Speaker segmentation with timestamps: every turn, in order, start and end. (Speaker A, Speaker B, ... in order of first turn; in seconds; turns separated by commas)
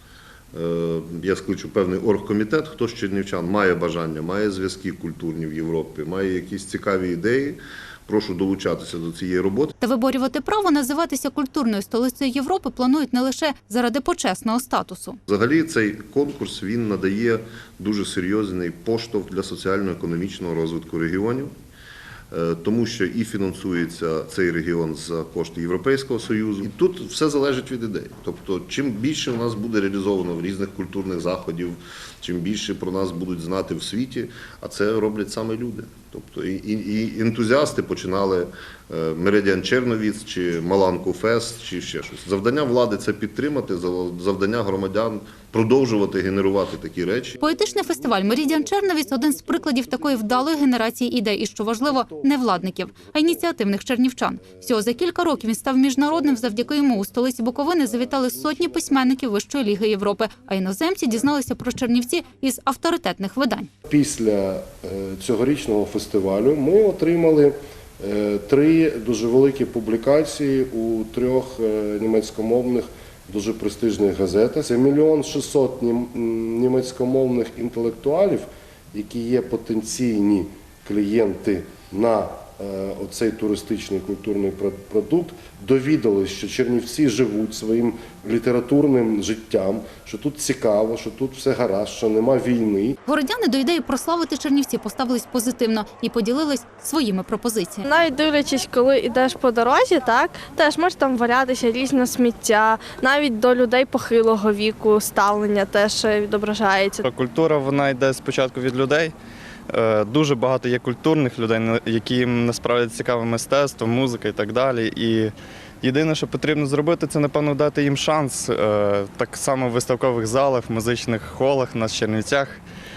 Speaker A: 0.5-9.7, Speaker B: 9.8-15.2, Speaker A: 15.3-21.5, Speaker A: 22.3-47.4, Speaker B: 47.4-63.7, Speaker C: 47.7-49.0, Speaker C: 49.6-50.3, Speaker C: 52.1-52.4, Speaker C: 63.8-93.0, Speaker B: 93.0-97.9, Speaker D: 97.8-107.0, Speaker E: 107.0-109.1, Speaker E: 109.7-122.6